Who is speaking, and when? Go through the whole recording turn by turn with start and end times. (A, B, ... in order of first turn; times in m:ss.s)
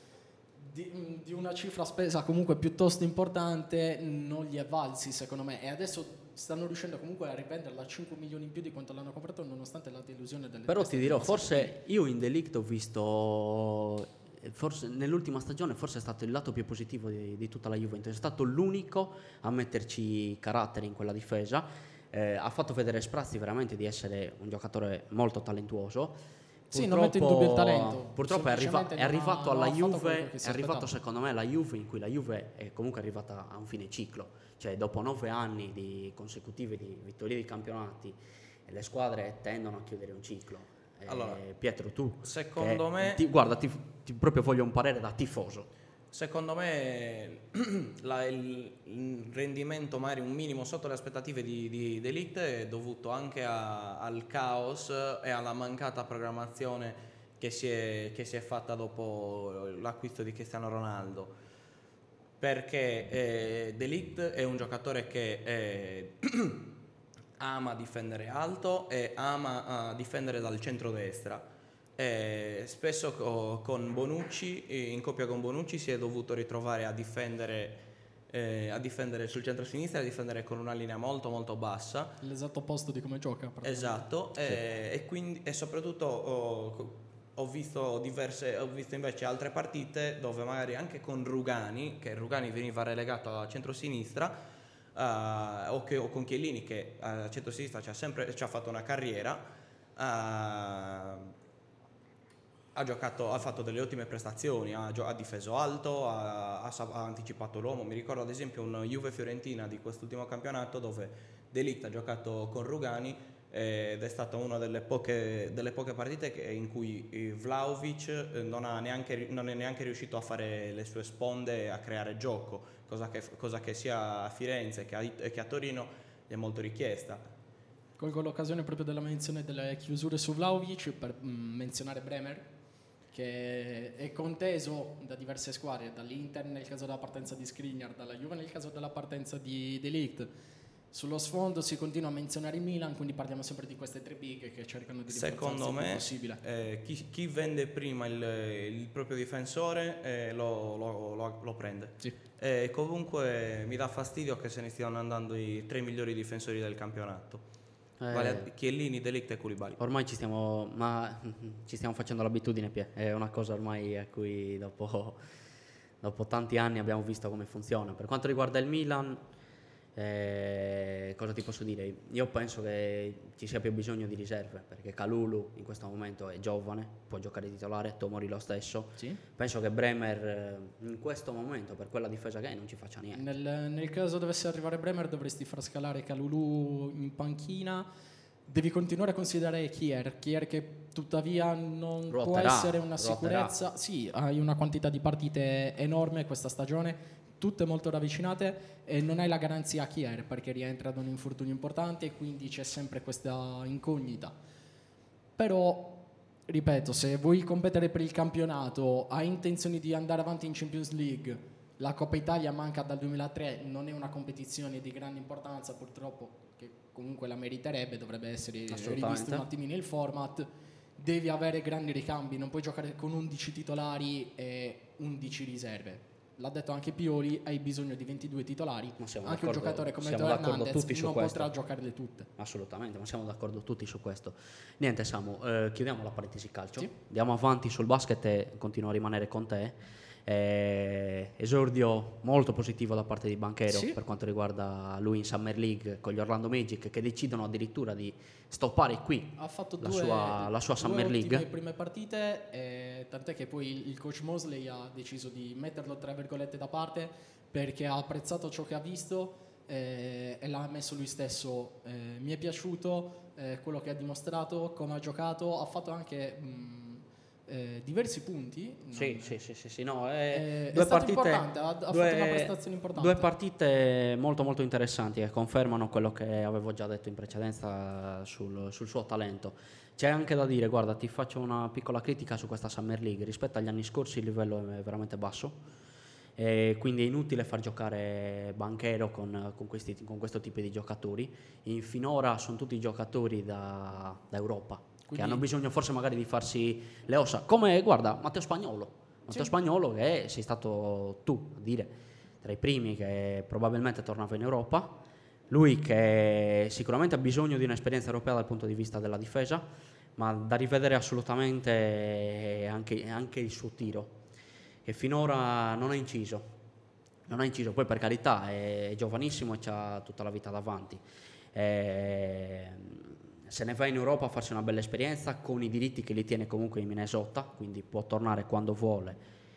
0:00.6-0:11.7 A
0:10.7-0:26.2 B
0:26.7-0:30.9 A
0:26.7-0:38.2 B
0:38.7-0:45.7 B
0:41.1-0:41.4 C
0:42.2-0:43.2 C
0:46.1-1:01.3 C
1:02.4-1:06.7 C
1:07.4-1:11.4 C
1:12.0-1:22.2 C
1:22.2-1:24.0 A
1:23.6-1:34.3 C
1:34.9-1:39.4 C
1:40.0-1:41.3 C
1:42.7-2:07.2 C
2:08.0-2:12.5 A
2:13.1-2:20.3 A
2:20.9-2:26.4 A
2:25.1-2:37.4 C
2:38.0-2:38.5 B
2:38.1-2:39.8 C
2:39.8-2:45.2 B
2:46.0-2:49.2 B
2:50.0-3:03.2 B
3:03.1-3:07.9 A
3:08.5-3:24.3 A
3:12.1-3:13.5 B
3:25.4-3:52.3 A
3:38.7-3:39.4 B
3:49.0-3:51.5 B
3:52.4-4:11.4 B
4:03.7-4:04.0 A
4:09.4-4:29.3 A
4:28.9-4:45.6 B
4:30.3-4:33.3 A
4:46.4-5:05.0 B
4:55.0-4:55.4 A
5:05.5-5:14.2 B
5:14.8-5:16.5 B
5:17.3-5:21.0 B
5:21.5-5:29.2 B